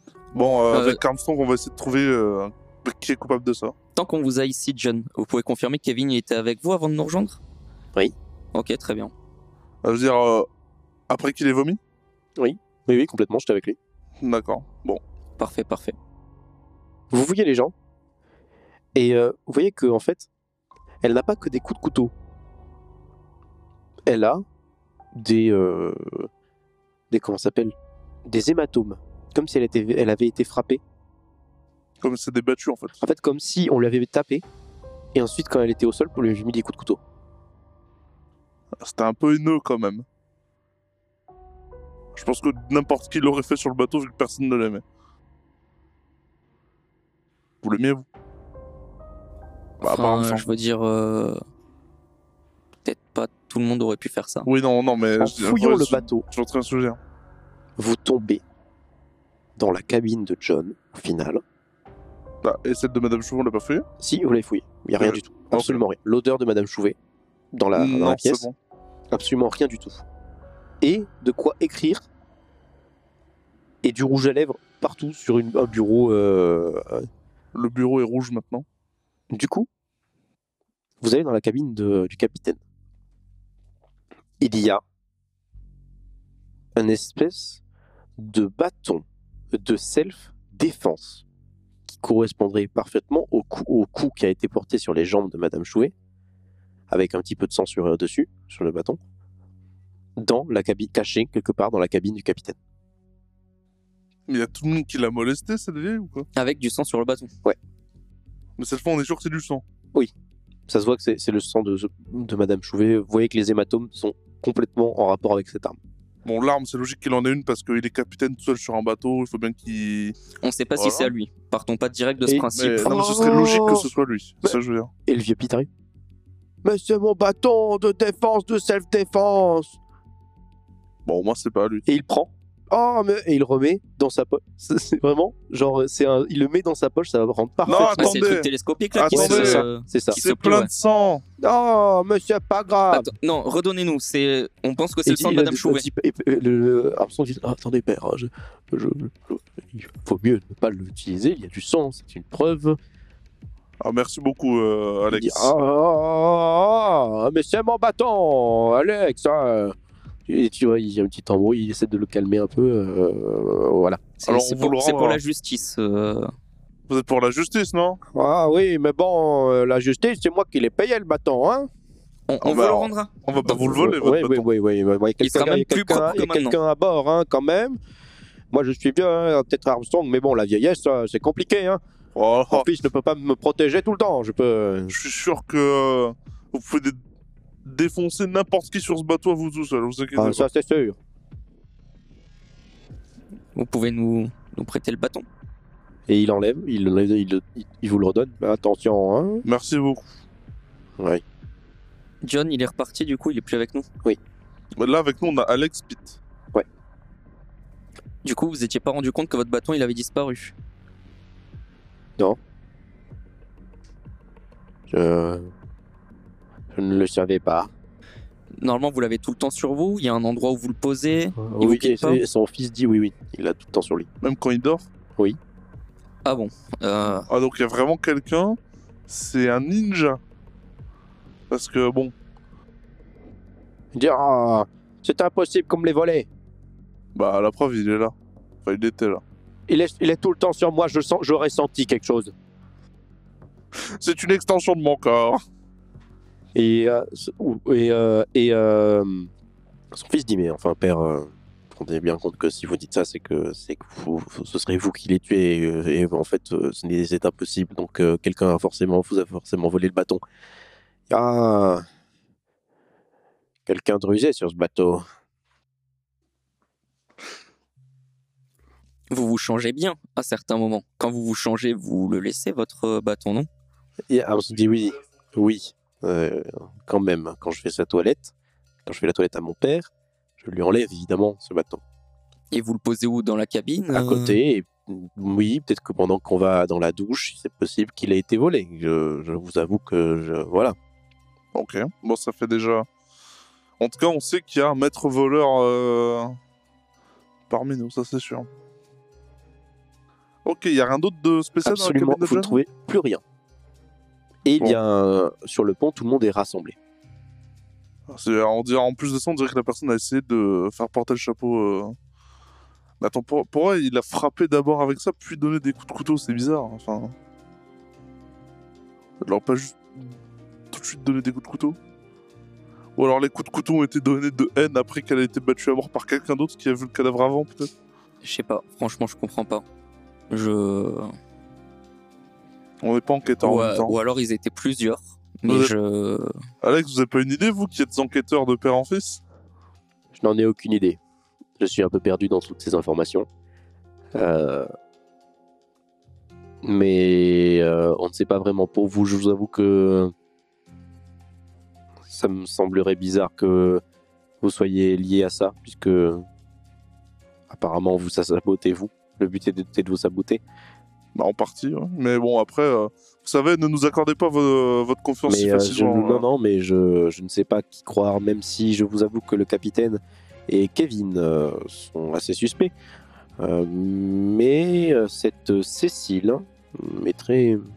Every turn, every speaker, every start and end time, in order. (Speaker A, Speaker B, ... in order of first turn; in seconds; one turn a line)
Speaker A: 0.3-3.7
Speaker B: 0.7-1.0
Speaker B: 4.0-7.4
Speaker B: 8.5-9.1
Speaker A: 9.8-10.5
Speaker A: 11.1-11.8
Speaker C: 12.4-13.8
Speaker A: 14.2-15.0
Speaker B: 15.4-15.9
Speaker C: 17.1-17.7
Speaker C: 18.9-20.3
Speaker C: 21.0-22.1
Speaker C: 24.1-24.4
Speaker C: 25.1-26.3
Speaker C: 27.1-27.7
Speaker C: 28.2-30.8
Speaker A: 32.0-33.0
Speaker C: 33.0-34.4
Speaker C: 35.1-37.0
Speaker A: 38.8-40.0
Speaker A: 42.1-44.8
Speaker A: 47.6-48.0
Speaker B: 49.8-51.4
Speaker A: 49.8-50.5
Speaker B: 52.8-54.5
Speaker A: 54.4-57.0
Speaker C: 55.2-56.2
Speaker C: 57.8-58.4
Speaker C: 59.6-61.4
Speaker A: 62.4-63.8
Speaker C: 64.0-67.0
Speaker A: 65.0-65.8
Speaker C: 67.5-68.5
Speaker A: 67.7-68.5
Speaker C: 69.1-70.0
Speaker C: 70.8-72.1
Speaker C: 73.8-77.1
Speaker A: 77.5-78.6
Speaker C: 79.3-79.7
Speaker C: 81.0-82.6
Speaker C: 84.4-84.8
Speaker C: 86.7-87.6
Speaker C: 88.2-91.2
Speaker C: 91.9-95.9
Speaker C: 96.9-99.0
Speaker C: 100.2-102.6
Speaker A: 104.3-106.3
Speaker B: 106.3-107.3
Speaker A: 108.6-109.6
Speaker C: 110.7-115.8
Speaker A: 116.2-120.2
Speaker B: 120.4-122.9
Speaker A: 120.8-121.1
Speaker C: 122.2-123.9
Speaker A: 122.5-124.9
Speaker C: 124.4-125.7
Speaker C: 126.6-129.8
Speaker A: 131.1-131.9
Speaker C: 131.9-138.3
Speaker A: 137.6-141.2
Speaker B: 137.7-140.7
Speaker C: 139.1-140.2
Speaker C: 141.4-143.1
Speaker B: 142.9-145.8
Speaker C: 145.1-152.8
Speaker A: 153.8-155.5
Speaker C: 155.1-159.7
Speaker C: 160.3-164.0
Speaker B: 164.2-166.3
Speaker A: 164.3-165.2
Speaker A: 166.9-168.0
Speaker C: 168.1-171.7
Speaker B: 172.3-173.1
Speaker A: 172.4-174.5
Speaker C: 173.4-177.8
Speaker B: 175.2-176.6
Speaker C: 178.5-181.8
Speaker A: 182.1-182.7
Speaker C: 182.5-184.9
Speaker A: 184.9-187.0
Speaker A: 187.6-190.4
Speaker C: 190.2-191.0
Speaker B: 193.5-195.2
Speaker C: 196.1-199.4
Speaker A: 199.4-200.1
Speaker C: 201.0-201.2
Speaker B: 202.2-203.9
Speaker A: 204.8-206.2
Speaker B: 208.2-210.5
Speaker C: 214.9-215.5
Speaker C: 216.7-217.7
Speaker B: 218.6-222.2
Speaker C: 221.4-224.1
Speaker A: 224.2-224.9
Speaker B: 226.2-227.3
Speaker A: 227.3-230.2
Speaker A: 231.5-232.1
Speaker C: 233.9-236.3
Speaker A: 237.1-238.1
Speaker A: 238.6-239.2
Speaker C: 239.7-242.3
Speaker A: 243.8-245.4
Speaker C: 246.5-249.3
Speaker C: 249.9-260.2
Speaker C: 261.1-261.8
Speaker C: 263.7-265.0
Speaker B: 269.1-273.5
Speaker C: 274.1-278.3
Speaker C: 278.8-281.8
Speaker B: 282.5-284.4
Speaker C: 283.9-290.7
Speaker A: 291.5-292.9
Speaker A: 293.8-296.4
Speaker A: 297.5-298.5
Speaker A: 300.4-302.6
Speaker C: 301.6-303.2
Speaker C: 304.4-306.8
Speaker A: 308.1-311.9
Speaker A: 313.0-317.1
Speaker A: 319.2-320.2
Speaker A: 320.7-321.8
Speaker A: 323.0-327.7
Speaker B: 328.2-329.6
Speaker B: 330.3-331.1
Speaker A: 332.8-333.9
Speaker B: 333.4-336.3
Speaker A: 335.5-335.7
Speaker A: 336.6-339.2
Speaker C: 340.1-341.0
Speaker C: 341.6-343.3
Speaker C: 344.1-344.7
Speaker C: 346.6-350.1
Speaker C: 352.1-353.8
Speaker C: 354.4-356.2
Speaker C: 357.5-360.4
Speaker A: 361.1-366.2
Speaker C: 365.3-372.7
Speaker C: 373.4-377.6